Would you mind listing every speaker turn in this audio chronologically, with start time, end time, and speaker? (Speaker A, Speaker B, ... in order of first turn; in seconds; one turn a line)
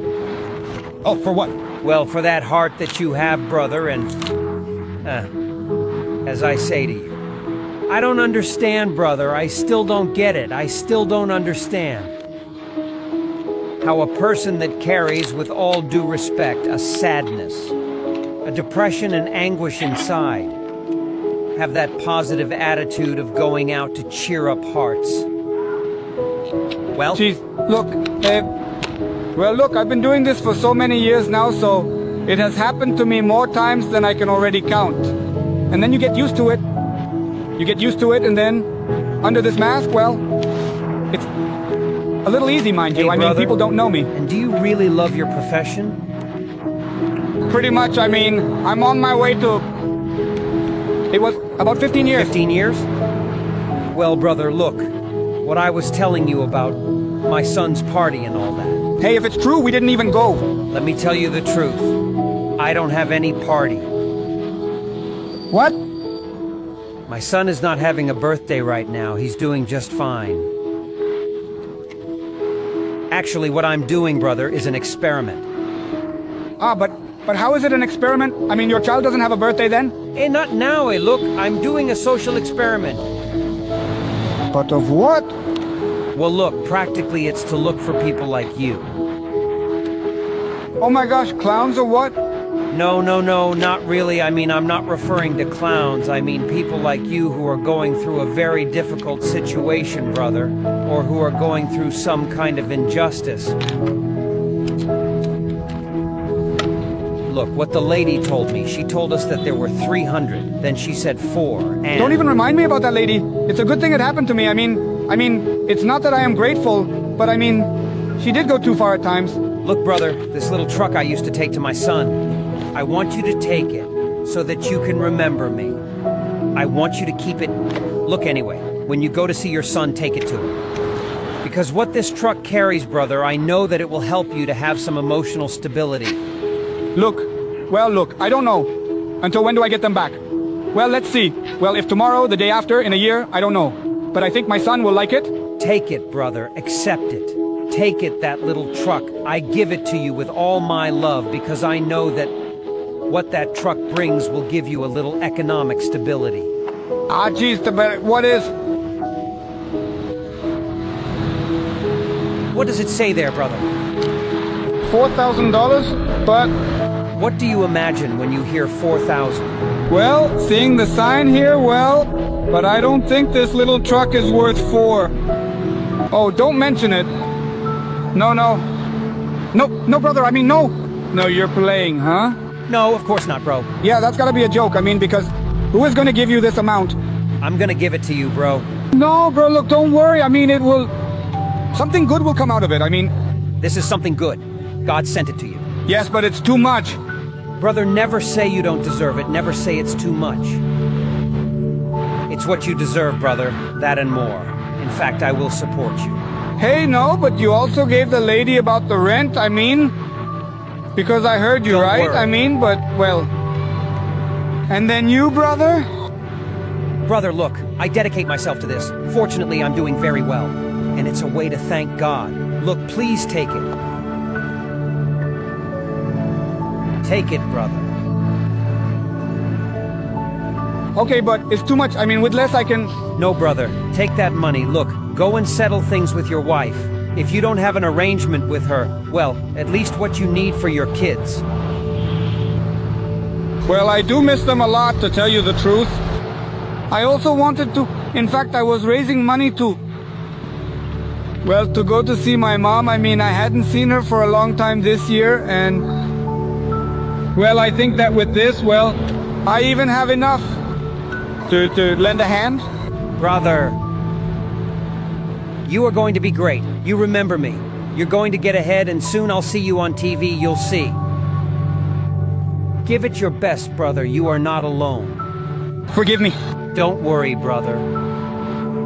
Speaker A: 1.0-1.5
Speaker B: 1.8-4.1
Speaker B: 5.0-5.3
Speaker B: 6.2-7.2
Speaker B: 7.9-12.1
Speaker B: 13.8-17.7
Speaker B: 18.4-20.6
Speaker B: 21.6-25.3
Speaker B: 26.9-27.2
Speaker A: 27.1-28.5
Speaker A: 29.3-35.1
Speaker A: 35.7-36.6
Speaker A: 37.6-38.7
Speaker A: 39.2-40.2
Speaker A: 42.2-44.1
Speaker B: 42.9-43.6
Speaker B: 44.1-46.0
Speaker A: 47.5-49.7
Speaker A: 51.1-52.3
Speaker B: 52.1-52.9
Speaker B: 53.9-54.9
Speaker B: 55.4-58.8
Speaker A: 59.0-60.5
Speaker B: 60.7-61.9
Speaker B: 62.6-63.9
Speaker A: 65.5-65.8
Speaker B: 67.1-70.5
Speaker B: 73.1-75.4
Speaker A: 76.6-79.9
Speaker B: 80.1-83.0
Speaker A: 84.5-85.3
Speaker B: 86.1-88.9
Speaker A: 90.8-92.2
Speaker B: 92.7-103.5
Speaker B: 107.3-112.2
Speaker A: 112.0-119.4
Speaker B: 119.6-122.2
Speaker B: 122.7-125.8
Speaker B: 126.5-130.6
Speaker B: 131.4-136.2
Speaker A: 136.9-138.7
Speaker A: 139.2-140.2
Speaker A: 140.7-145.3
Speaker B: 145.6-152.3
Speaker B: 153.1-156.5
Speaker A: 157.1-158.5
Speaker B: 162.5-163.7
Speaker A: 164.9-166.5
Speaker B: 167.1-169.5
Speaker A: 169.9-175.1
Speaker A: 176.1-177.1
Speaker A: 178.1-178.6
Speaker A: 179.5-182.3
Speaker B: 182.7-183.7
Speaker A: 183.8-187.0
Speaker B: 187.4-188.7
Speaker A: 188.9-190.9
Speaker A: 191.7-193.1
Speaker B: 193.6-195.7
Speaker A: 195.8-197.0
Speaker B: 197.6-200.6
Speaker B: 202.3-206.2
Speaker A: 206.6-209.9
Speaker A: 210.9-213.3
Speaker B: 211.7-212.3
Speaker A: 214.7-215.9
Speaker B: 217.0-223.7
Speaker B: 227.0-227.9
Speaker A: 230.9-232.9
Speaker B: 233.2-241.4
Speaker A: 243.7-246.0
Speaker A: 246.9-249.8
Speaker A: 251.4-255.8
Speaker A: 257.3-260.5
Speaker A: 261.5-262.6
Speaker B: 263.2-263.8
Speaker B: 265.6-271.0
Speaker B: 272.8-275.2
Speaker A: 275.9-276.3
Speaker B: 276.7-277.9